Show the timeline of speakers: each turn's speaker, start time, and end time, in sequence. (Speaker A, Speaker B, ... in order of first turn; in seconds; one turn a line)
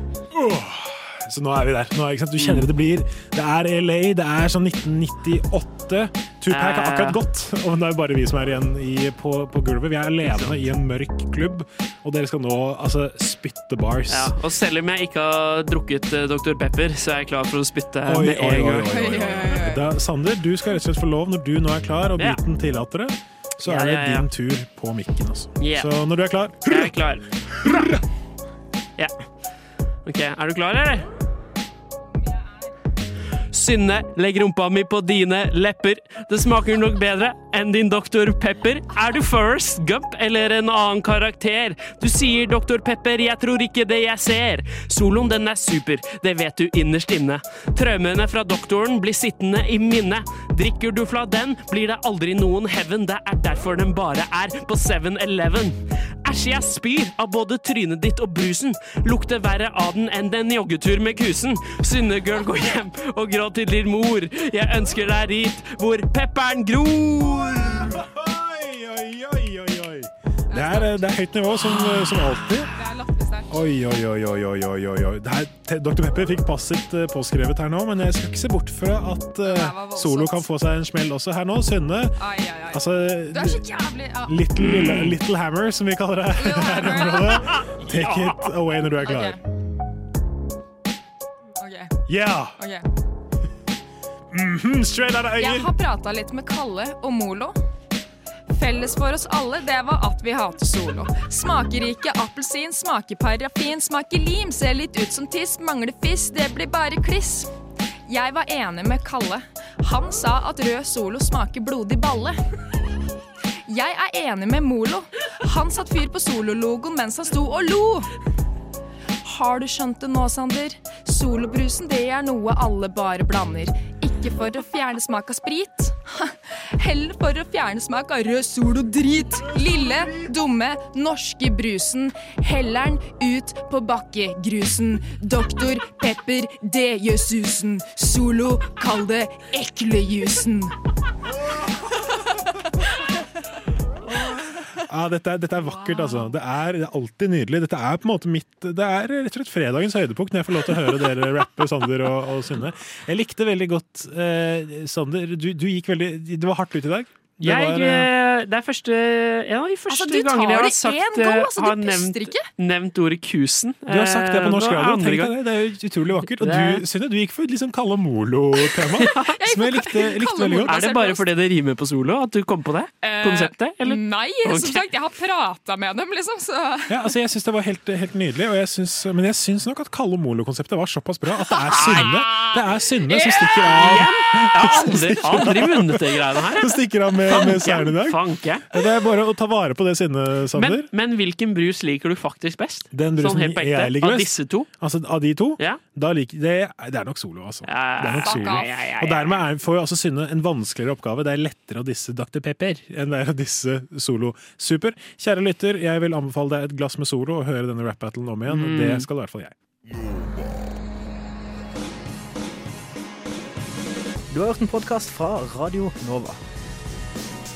Speaker A: 0.3-14.3
Speaker B: 6.5-7.2
Speaker B: 10.2-10.6
Speaker B: 14.1-18.9
Speaker A: 18.0-26.9
Speaker C: 18.9-19.9
Speaker B: 23.6-24.3
Speaker B: 25.6-25.9
Speaker B: 26.7-27.9
Speaker B: 30.0-31.1
Speaker C: 32.1-32.7
Speaker B: 33.5-67.9
Speaker A: 67.7-72.7
Speaker C: 70.5-71.1
Speaker C: 72.1-73.5
Speaker A: 73.5-82.2
Speaker C: 79.4-80.5
Speaker C: 82.2-84.5
Speaker A: 82.7-83.6
Speaker A: 84.3-89.4
Speaker B: 84.7-85.0
Speaker C: 86.3-87.5
Speaker B: 87.6-88.4
Speaker C: 89.0-89.4
Speaker C: 91.6-91.9
Speaker A: 92.1-92.5
Speaker C: 92.6-92.8
Speaker A: 94.3-95.7
Speaker C: 95.4-97.6
Speaker C: 98.5-107.5
Speaker C: 108.0-112.4
Speaker C: 113.7-118.1
Speaker C: 119.2-140.7
Speaker A: 144.9-158.1
Speaker C: 145.7-146.3
Speaker B: 157.4-165.4
Speaker C: 159.9-162.5
Speaker A: 163.9-170.9
Speaker B: 166.2-166.8
Speaker C: 169.3-171.2
Speaker B: 170.7-174.8
Speaker C: 173.0-177.1
Speaker A: 176.9-190.9
Speaker C: 181.5-183.8
Speaker B: 183.8-186.7
Speaker B: 187.2-188.8
Speaker B: 190.6-194.7
Speaker A: 192.9-209.5
Speaker B: 197.7-199.3
Speaker C: 198.2-198.7
Speaker C: 208.5-209.0
Speaker D: 214.3-216.4